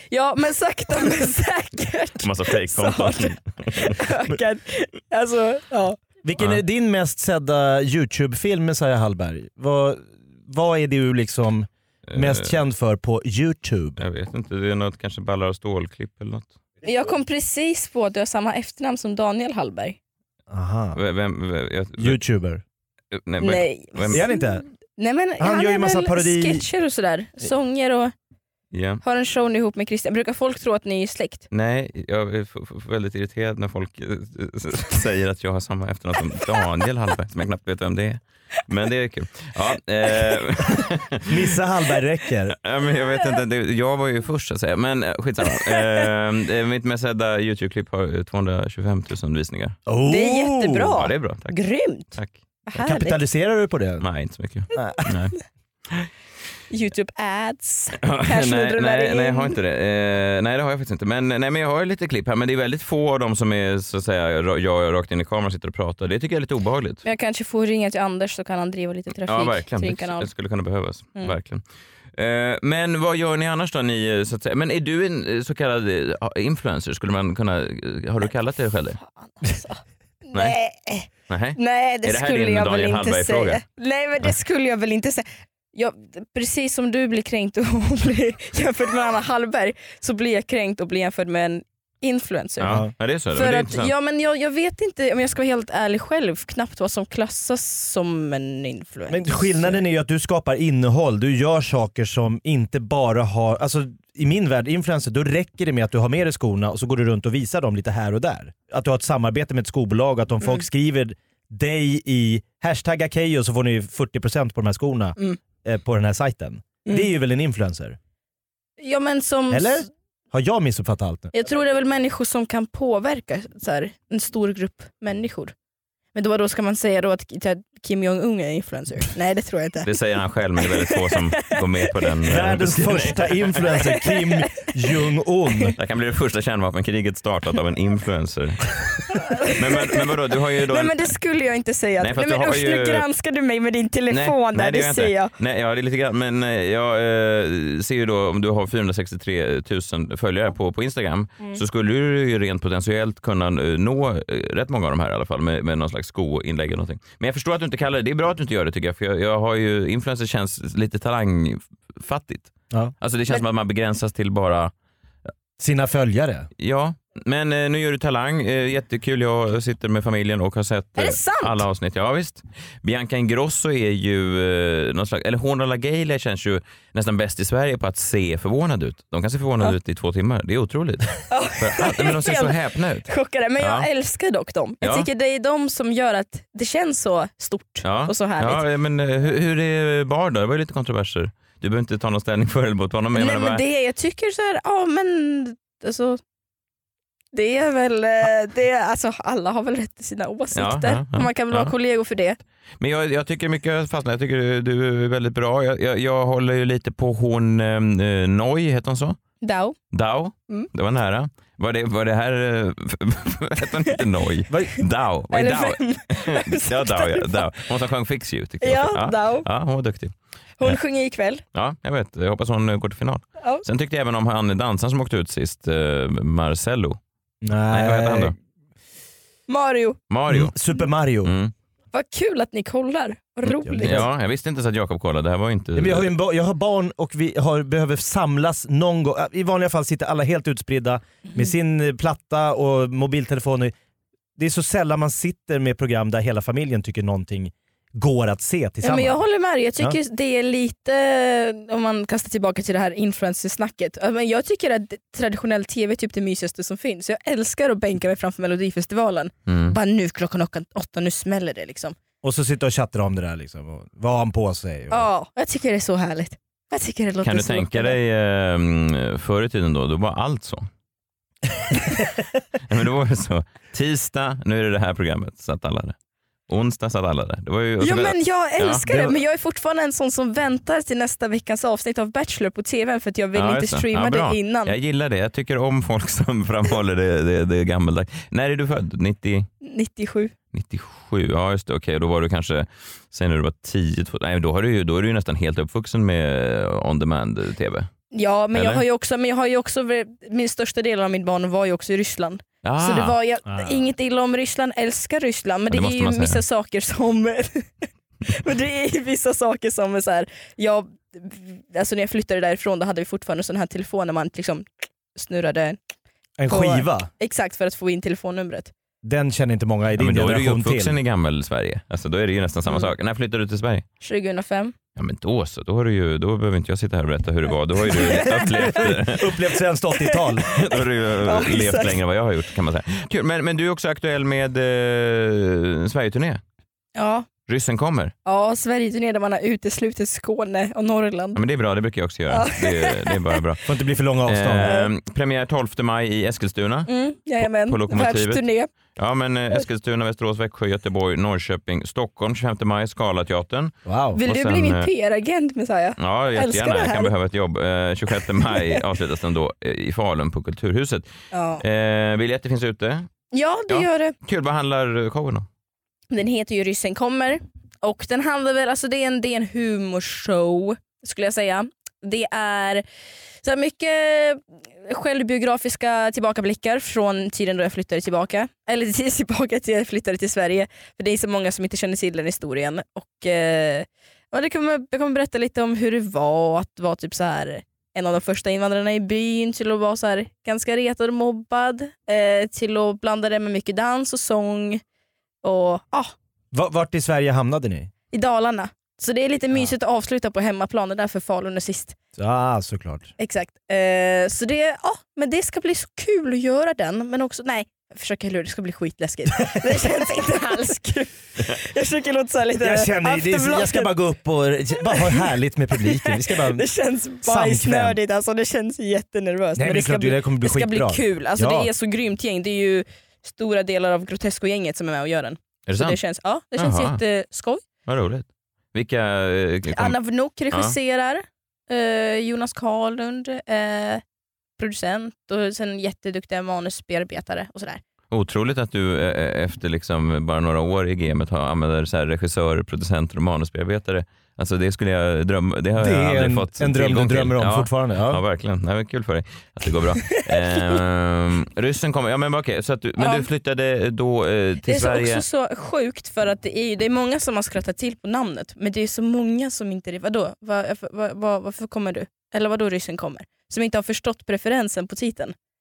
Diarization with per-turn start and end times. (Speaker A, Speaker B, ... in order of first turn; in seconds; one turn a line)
Speaker A: 0.1-6.0
Speaker B: 2.2-4.0
Speaker C: 6.2-14.0
Speaker B: 12.1-12.5
Speaker B: 14.0-16.5
Speaker A: 16.8-20.0
Speaker C: 20.5-21.0
Speaker B: 20.9-22.2
Speaker C: 22.0-22.6
Speaker B: 23.1-24.2
Speaker A: 23.4-24.4
Speaker C: 24.1-24.6
Speaker A: 25.0-28.1
Speaker C: 25.4-26.6
Speaker B: 28.7-29.0
Speaker A: 29.0-31.5
Speaker B: 31.5-41.5
Speaker C: 41.3-42.6
Speaker B: 42.6-49.8
Speaker A: 45.6-46.0
Speaker C: 49.9-51.0
Speaker A: 50.0-52.1
Speaker B: 51.0-51.6
Speaker B: 52.1-52.4
Speaker A: 52.7-53.2
Speaker C: 52.8-54.1
Speaker B: 54.0-55.3
Speaker C: 54.8-55.1
Speaker A: 56.7-59.5
Speaker B: 58.0-67.0
Speaker A: 67.0-70.3
Speaker B: 69.3-71.6
Speaker B: 72.2-79.0
Speaker A: 79.2-99.8
Speaker B: 81.3-83.6
Speaker B: 92.6-93.9
Speaker C: 92.6-92.9
Speaker C: 99.1-118.0
Speaker A: 118.8-119.9
Speaker C: 119.5-121.3
Speaker A: 121.3-125.5
Speaker A: 126.2-129.9
Speaker B: 129.8-133.7
Speaker A: 130.6-131.6
Speaker C: 132.2-135.7
Speaker A: 133.8-134.7
Speaker B: 135.8-138.8
Speaker A: 139.1-140.1
Speaker B: 139.4-141.1
Speaker A: 140.7-145.3
Speaker B: 142.0-143.1
Speaker B: 144.1-164.7
Speaker C: 165.6-166.5
Speaker B: 166.6-183.9
Speaker A: 171.0-171.6
Speaker A: 181.3-182.6
Speaker A: 183.1-188.6
Speaker B: 184.8-185.1
Speaker B: 187.8-193.6
Speaker A: 193.1-196.2
Speaker A: 197.3-202.4
Speaker B: 200.5-201.7
Speaker B: 202.8-209.2
Speaker A: 209.4-209.8
Speaker B: 209.9-220.8
Speaker A: 215.3-217.5
Speaker A: 218.6-219.5
Speaker A: 220.6-221.4
Speaker B: 221.5-227.0
Speaker C: 227.4-228.3
Speaker B: 227.7-228.3
Speaker A: 229.5-230.0
Speaker B: 230.1-230.5
Speaker C: 230.3-231.3
Speaker B: 231.2-231.5
Speaker A: 231.9-234.1
Speaker C: 233.7-234.1
Speaker B: 233.8-236.1
Speaker C: 235.8-243.7
Speaker C: 244.4-249.2
Speaker A: 248.8-262.0
Speaker B: 259.5-259.8
Speaker C: 262.2-265.1
Speaker A: 264.9-268.0
Speaker B: 267.2-270.7
Speaker B: 272.7-275.9
Speaker B: 276.5-278.8
Speaker A: 277.8-284.8
Speaker C: 278.9-279.2
Speaker B: 283.4-289.5
Speaker A: 289.6-290.3
Speaker B: 290.5-297.9
Speaker A: 298.1-307.7
Speaker B: 298.5-298.9
Speaker B: 302.6-303.2
Speaker C: 303.5-303.8
Speaker B: 305.7-306.4
Speaker A: 308.3-315.8
Speaker C: 316.4-317.1
Speaker A: 316.5-318.7
Speaker C: 319.0-321.0
Speaker B: 320.0-323.9
Speaker A: 324.0-324.7
Speaker B: 325.0-329.4
Speaker A: 327.9-328.9
Speaker C: 328.1-330.5
Speaker B: 330.5-336.4
Speaker A: 331.2-332.0
Speaker A: 337.0-337.3
Speaker B: 337.5-338.1
Speaker A: 338.2-341.4
Speaker B: 341.4-343.6
Speaker A: 342.3-343.3
Speaker C: 343.7-344.7
Speaker B: 344.2-348.4
Speaker A: 344.6-344.9
Speaker A: 346.9-348.7
Speaker B: 348.9-354.9
Speaker C: 353.9-354.2
Speaker A: 354.2-357.1
Speaker B: 356.0-361.1
Speaker A: 358.4-358.8
Speaker A: 361.3-361.6
Speaker B: 361.6-363.1
Speaker A: 363.3-364.1
Speaker B: 363.7-365.5
Speaker A: 366.1-372.8
Speaker A: 373.4-394.8
Speaker A: 395.4-396.1
Speaker C: 396.5-397.9
Speaker A: 398.1-401.9
Speaker C: 402.2-403.1
Speaker A: 403.2-413.9
Speaker C: 409.4-409.8
Speaker C: 412.6-416.7
Speaker A: 414.9-415.3
Speaker A: 415.8-427.6
Speaker C: 417.2-418.0
Speaker C: 419.6-421.7
Speaker B: 425.7-426.0
Speaker B: 426.6-427.0
Speaker B: 427.9-430.0
Speaker A: 429.7-434.0
Speaker A: 434.6-437.8
Speaker B: 438.1-455.2
Speaker C: 445.8-448.2
Speaker A: 453.0-453.3
Speaker A: 454.6-465.3